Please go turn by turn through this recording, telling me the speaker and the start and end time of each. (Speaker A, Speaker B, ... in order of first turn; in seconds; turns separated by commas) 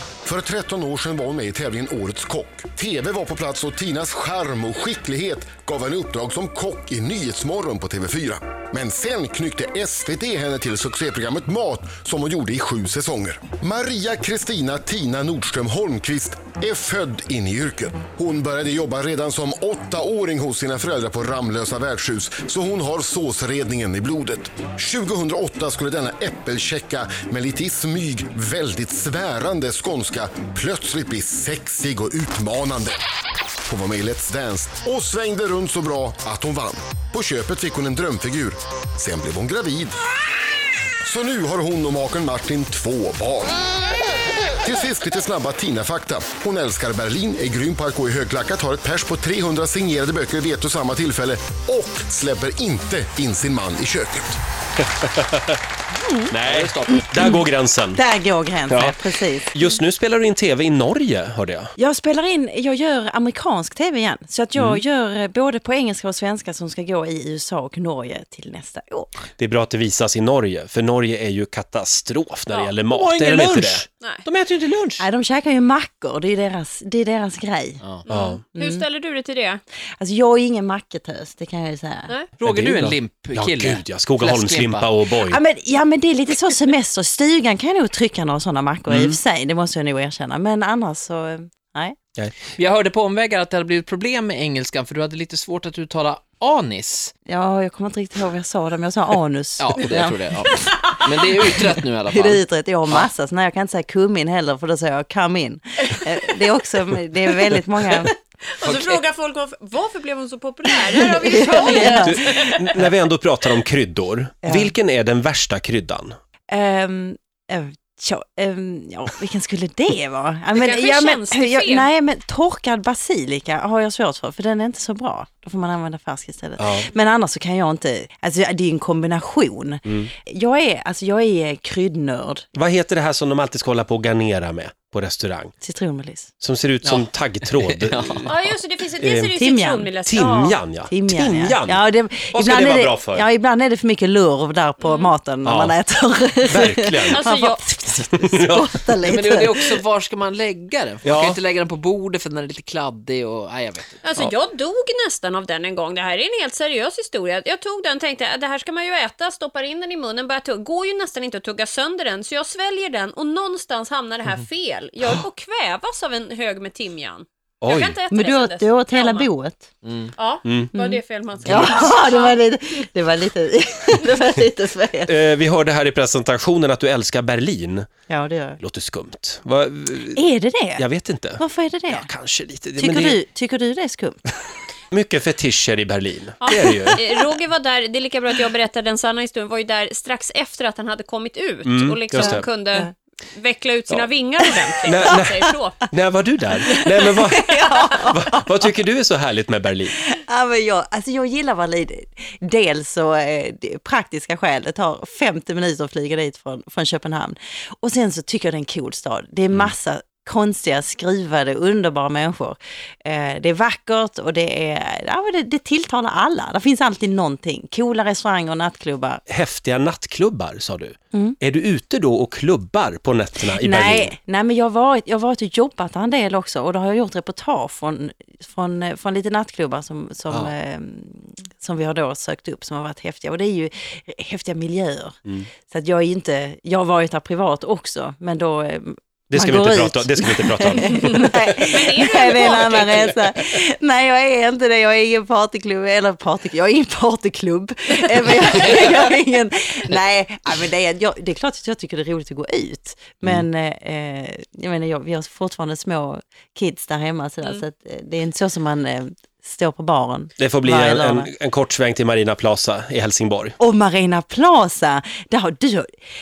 Speaker A: 0.2-33.0, Speaker A: 33.6-40.0, Speaker A: 41.0-43.7, Speaker A: 44.6-54.4, Speaker B: 54.8-55.6, Speaker C: 55.9-56.3, Speaker B: 56.3-58.0, Speaker D: 56.4-57.0, Speaker C: 57.1-57.4, Speaker C: 57.9-59.5, Speaker B: 58.7-61.7, Speaker C: 61.8-69.2, Speaker B: 64.5-64.8, Speaker B: 69.4-73.8, Speaker D: 72.9-75.0, Speaker C: 75.0-77.8, Speaker E: 78.0-79.6, Speaker B: 78.1-78.4, Speaker C: 78.5-78.8, Speaker C: 80.0-82.1, Speaker D: 82.4-84.9, Speaker B: 82.4-85.4, Speaker C: 85.1-92.0, Speaker B: 88.9-89.2, Speaker D: 92.5-97.1, Speaker C: 97.2-100.5, Speaker D: 99.6-103.1, Speaker E: 100.5-101.1, Speaker C: 102.1-108.1, Speaker E: 108.6-112.8, Speaker D: 108.6-109.0, Speaker C: 110.9-112.3, Speaker B: 111.7-116.2, Speaker C: 114.4-114.7, Speaker C: 116.5-132.4, Speaker E: 120.5-121.9, Speaker B: 126.6-126.9, Speaker B: 132.5-135.5, Speaker C: 135.6-136.3, Speaker B: 136.4-138.3, Speaker D: 136.8-138.4, Speaker E: 138.3-140.6, Speaker B: 139.0-139.3, Speaker C: 139.3-139.9, Speaker B: 140.1-141.8, Speaker C: 140.9-149.8, Speaker B: 142.3-143.3, Speaker E: 144.8-145.1, Speaker B: 145.4-145.7, Speaker B: 146.4-147.2, Speaker E: 147.1-147.6, Speaker B: 148.3-148.7, Speaker D: 149.0-154.1, Speaker B: 151.0-151.4, Speaker E: 154.0-169.3, Speaker B: 167.6-168.0, Speaker C: 168.1-169.7, Speaker D: 169.8-170.1, Speaker E: 170.2-172.3, Speaker B: 170.4-170.7, Speaker C: 170.7-175.1, Speaker B: 175.1-177.9, Speaker C: 178.1-178.6, Speaker B: 178.6-180.2, Speaker C: 180.1-180.8, Speaker B: 180.8-183.2, Speaker C: 181.4-182.1, Speaker C: 182.8-184.2, Speaker B: 184.9-187.0, Speaker E: 186.4-195.8, Speaker B: 191.7-192.5, Speaker C: 192.1-192.9, Speaker B: 194.8-200.0, Speaker C: 196.7-198.7, Speaker E: 196.8-198.1, Speaker C: 200.0-219.2, Speaker B: 219.3-224.1, Speaker C: 223.4-261.3, Speaker B: 239.3-241.3, Speaker E: 240.9-243.2, Speaker B: 260.4-263.6, Speaker C: 263.6-265.9